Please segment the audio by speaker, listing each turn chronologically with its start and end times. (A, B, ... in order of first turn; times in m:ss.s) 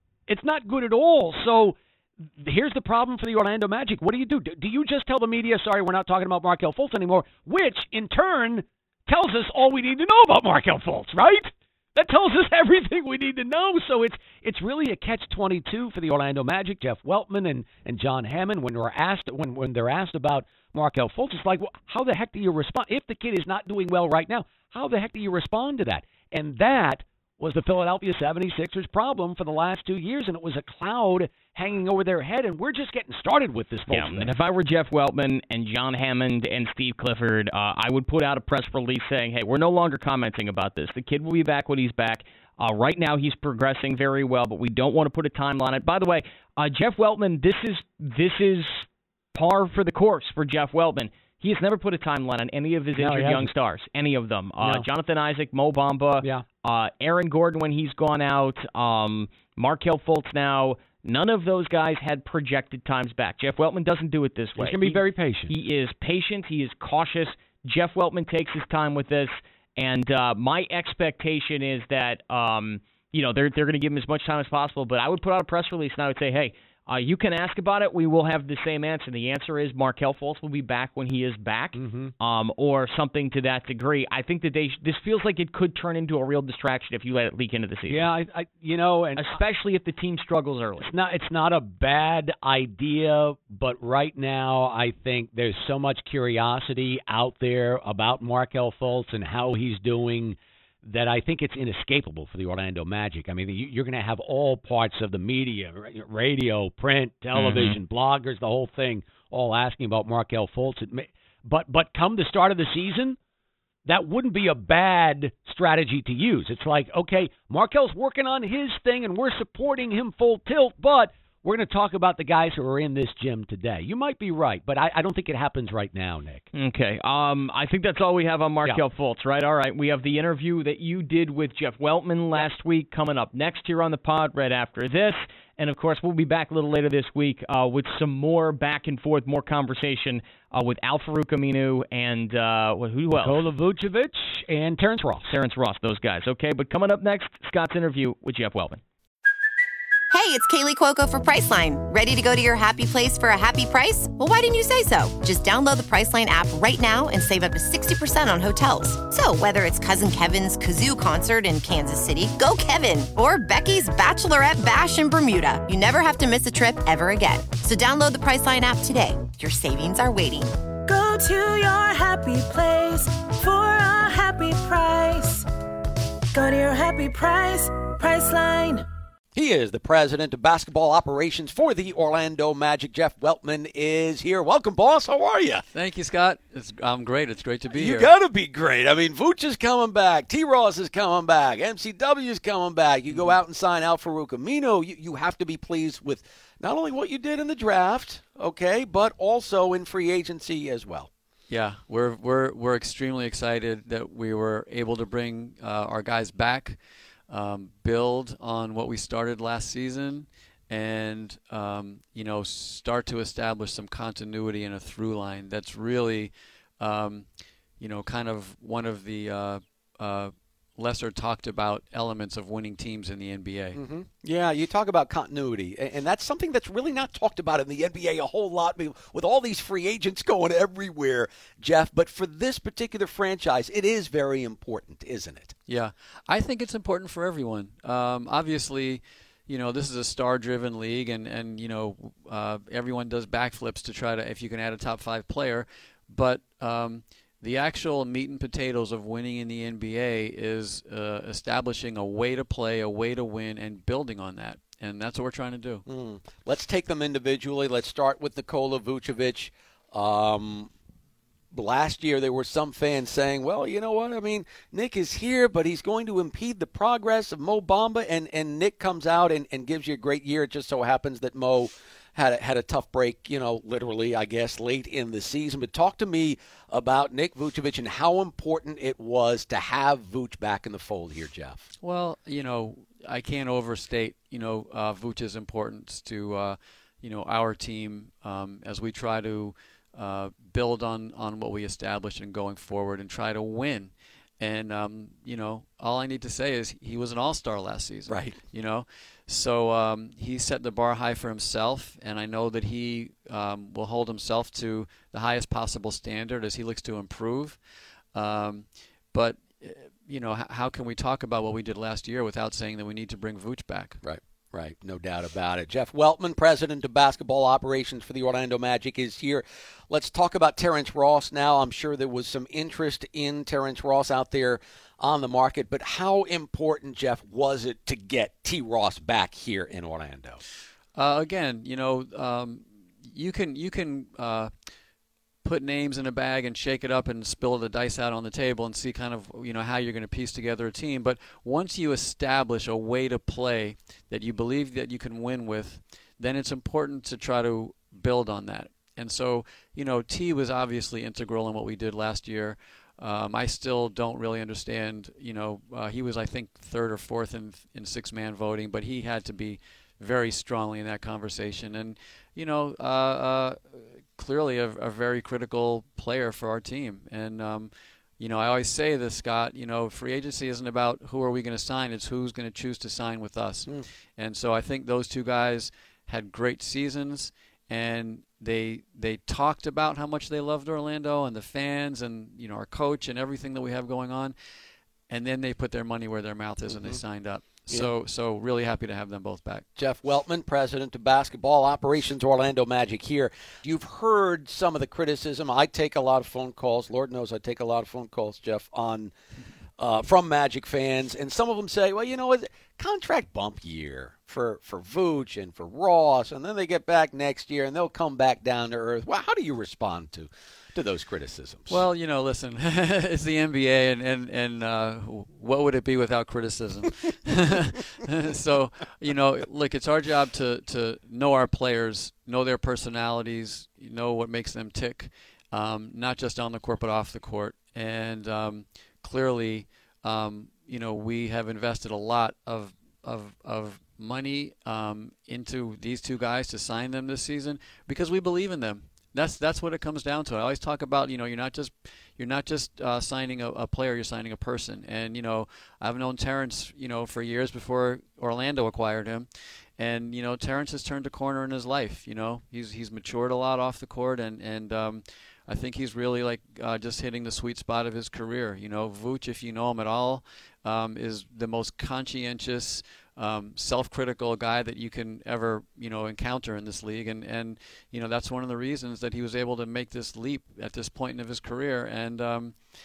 0:00.3-0:34.3 A
0:33.9-1:28.1 B
0:53.0-0:53.5 A
0:54.6-0:54.9 A
1:04.6-1:05.5 A
1:21.8-1:22.1 A
1:27.9-1:29.4 A
1:29.2-1:30.9 B
1:30.8-1:53.2 A
1:47.3-1:47.8 B
1:53.9-2:06.5 A
2:06.5-2:23.4 B
2:23.2-2:25.3 A
2:25.2-2:28.8 B
2:30.1-2:50.5 C
2:50.9-2:55.5 D
2:56.3-2:58.8 D
2:59.4-3:05.6 E
3:05.7-3:08.1 F
3:07.7-3:21.1 E
3:21.5-3:26.8 F
3:27.3-3:37.3 F
3:37.8-3:43.8 F
3:43.8-3:55.6 E
3:55.7-4:15.8 F
4:15.9-4:20.7 E
4:21.5-4:41.6 E
4:41.8-5:07.6 F
4:58.1-4:58.4 E
5:08.1-5:14.0 F
5:14.0-5:30.4 E
5:31.0-5:34.5 F
5:35.4-6:24.4 F
6:25.1-6:29.7 F
6:26.7-6:27.0 E
6:29.8-6:39.1 E
6:39.8-6:51.8 E
6:51.7-7:52.6 F